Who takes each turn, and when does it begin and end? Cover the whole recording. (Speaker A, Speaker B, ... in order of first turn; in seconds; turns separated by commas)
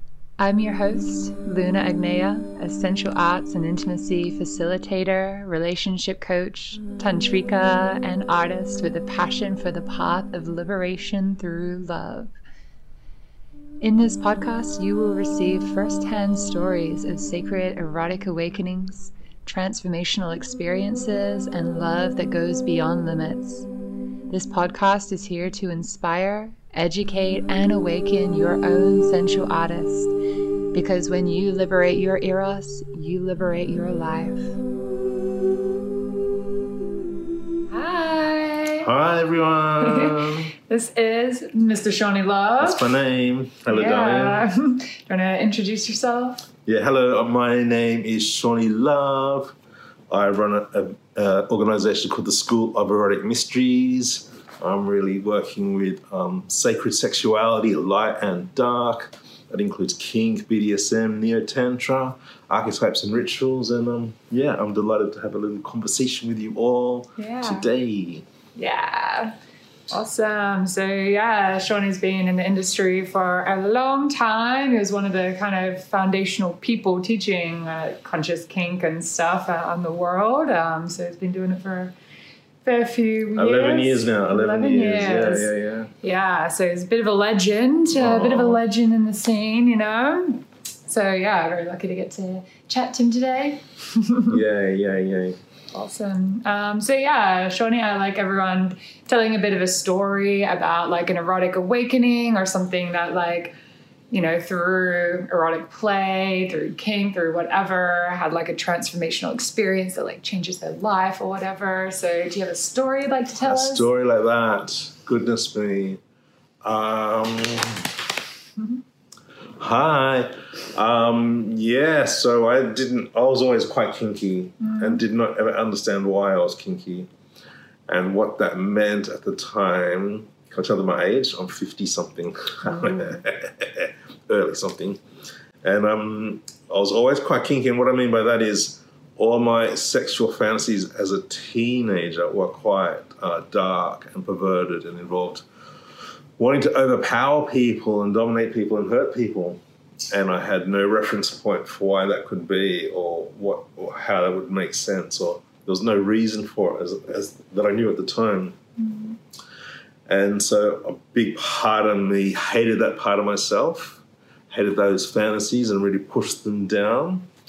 Speaker A: 0.4-12.3, Speaker A: 13.8-23.7, Speaker A: 24.3-30.1, Speaker A: 30.7-34.6, Speaker A: 37.7-38.9, Speaker B: 38.8-40.5, Speaker A: 39.8-42.9, Speaker B: 42.6-44.4, Speaker A: 43.7-46.5, Speaker B: 46.7-49.5, Speaker B: 50.1-68.3, Speaker A: 67.2-67.7, Speaker A: 68.6-69.3, Speaker A: 69.9-81.9, Speaker A: 82.6-94.4, Speaker B: 83.4-85.9, Speaker B: 87.9-88.6, Speaker B: 94.3-95.4, Speaker A: 95.7-103.5, Speaker A: 104.1-113.9, Speaker B: 113.4-116.0, Speaker B: 116.6-118.1, Speaker B: 119.6-127.1, Speaker A: 124.6-125.0, Speaker B: 127.9-135.0, Speaker A: 132.8-133.1, Speaker B: 135.6-145.4, Speaker B: 146.4-158.6, Speaker A: 158.8-159.2, Speaker B: 160.1-167.3